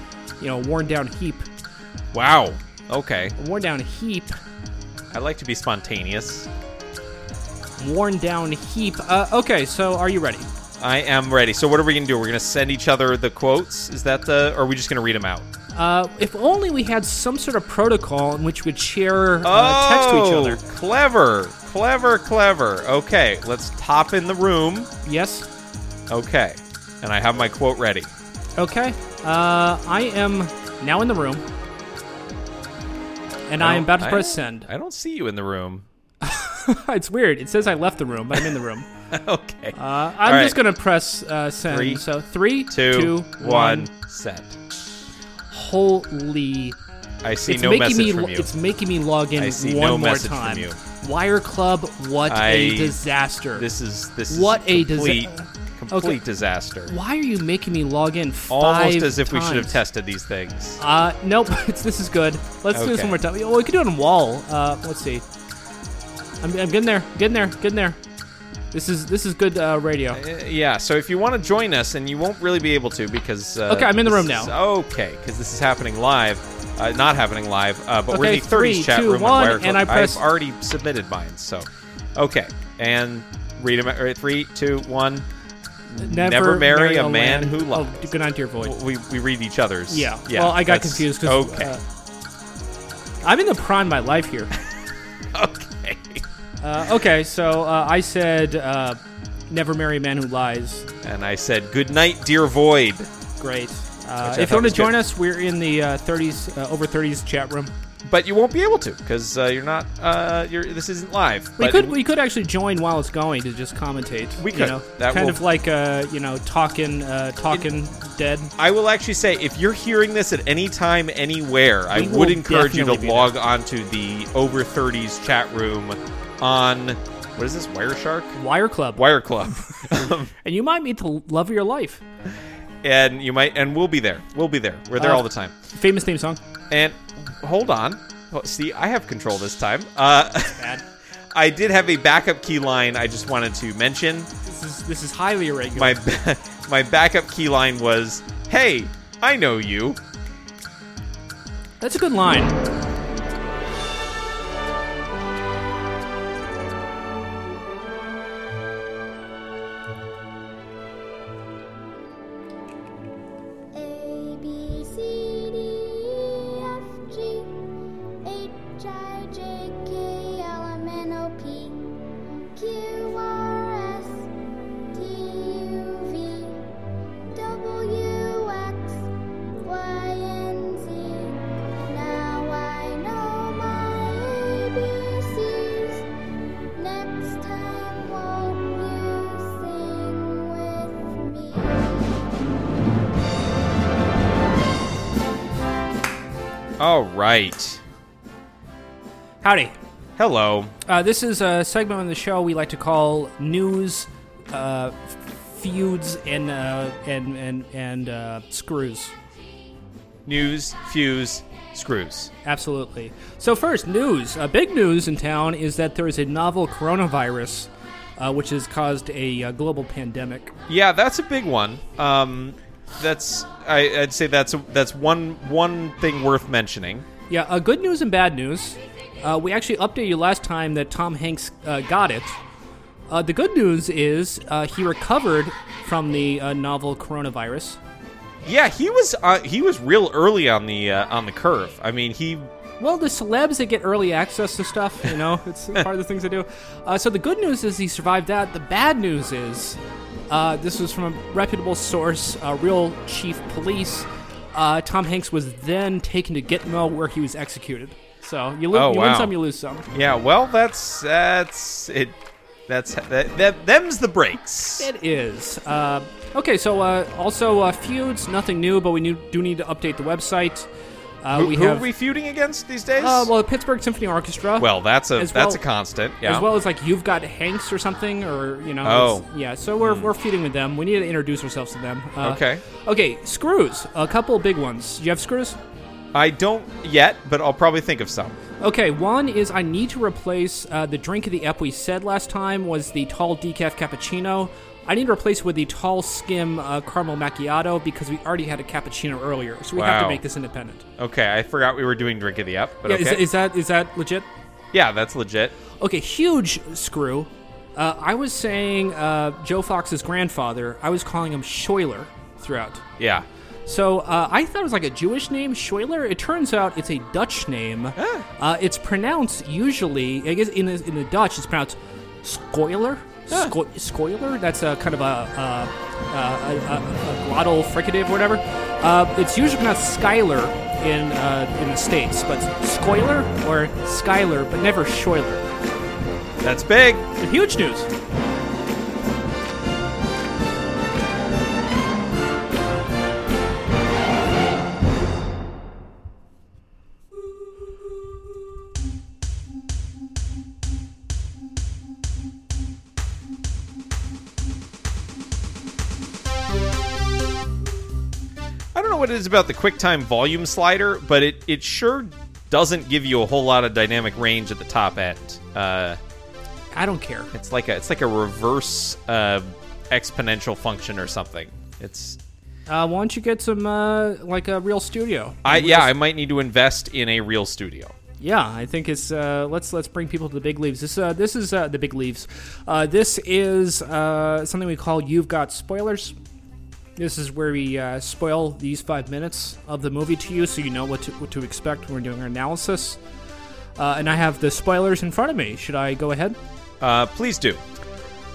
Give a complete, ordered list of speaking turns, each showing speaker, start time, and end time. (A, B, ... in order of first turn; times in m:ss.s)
0:00.4-0:01.5 A
0:02.1-0:03.4 B
0:03.4-0:04.4 A
0:05.1-0:06.5 B
0:07.8-0:10.5 A
0:10.8-0:15.5 B
0:15.7-0:20.6 A
0:19.4-0:24.9 B
0:25.0-0:25.5 A
0:26.1-0:28.1 B
0:28.6-0:31.4 A
0:33.5-0:34.7 A
0:33.6-0:35.9 B
0:36.2-0:38.9 A
0:39.1-0:40.6 B
0:39.7-0:43.9 A
0:41.7-0:42.0 B
0:42.7-0:44.6 B
0:45.5-0:46.8 A
0:47.2-0:48.5 B
0:47.5-0:53.7 A
0:49.4-0:50.8 B
0:52.3-0:53.0 B
0:53.5-0:56.9 B
0:54.3-0:56.2 A
0:56.9-0:59.8 A
0:58.5-1:00.8 B
1:00.8-1:05.2 A
1:02.7-1:03.2 B
1:06.4-1:08.0 A
1:08.7-1:10.2 A
1:10.1-1:25.3 B
1:13.7-1:14.5 A
1:18.1-1:20.2 A
1:25.9-1:28.8 A
1:25.9-1:31.7 B
1:29.9-1:31.8 A
1:33.2-1:34.5 A
1:35.3-1:36.2 B
1:36.6-1:40.9 A
1:41.0-1:43.1 B
1:43.4-1:47.7 A
1:44.2-1:45.0 B
1:48.0-1:52.0 B
1:51.6-1:58.5 A
1:54.4-1:55.4 B
1:58.6-2:08.4 B
2:01.9-2:03.3 A
2:08.4-2:09.1 A
2:09.0-2:10.3 B
2:09.7-2:12.0 A
2:12.8-2:15.5 B
2:15.0-2:16.4 A
2:16.7-2:20.7 B
2:20.6-2:20.8 A
2:21.3-2:24.3 B
2:24.4-2:26.0 A
2:25.8-2:30.0 B
2:31.8-2:32.6 A
2:43.7-2:47.7 C
2:48.2-2:54.3 C
2:54.9-2:56.7 C
2:57.3-3:06.1 C
3:06.8-3:12.2 C
3:16.8-3:17.8 B
3:19.4-3:19.8 A
3:20.2-3:20.7 B
3:20.9-3:29.1 A
3:30.3-3:32.3 B
3:32.4-3:40.5 A
3:40.7-3:47.1 B
3:47.3-3:52.4 A
3:53.1-3:57.8 A
3:58.5-4:02.5 B
4:02.8-4:09.8 A
4:10.3-4:19.9 A
4:18.7-4:19.4 B
4:19.9-4:22.2 B
4:22.7-4:24.9 B
4:24.8-4:30.7 A
4:31.2-4:31.9 A
4:31.3-4:33.3 B
4:33.0-4:35.6 A
4:34.6-4:36.5 B
4:36.2-4:45.6 A
4:38.8-4:39.3 B
4:39.8-4:40.1 B
4:42.2-4:42.6 B
4:46.1-4:48.4 B
4:48.6-5:00.8 A
4:59.7-5:00.2 B
5:01.0-5:03.2 B
5:02.8-5:04.3 A
5:04.7-5:05.6 B
5:05.8-5:12.8 A
5:13.0-5:13.3 B
5:13.7-5:35.5 A
5:18.0-5:18.3 B
5:23.3-5:23.6 B
5:36.4-5:37.1 B
5:37.2-5:37.9 A
5:58.7-6:06.0 B
6:06.7-6:07.3 A
6:07.3-6:12.2 B
6:12.7-6:15.9 A
6:15.4-6:17.9 B
6:18.2-6:26.2 A
6:27.0-6:33.0 A
6:33.8-6:36.4 A
6:36.8-6:37.6 B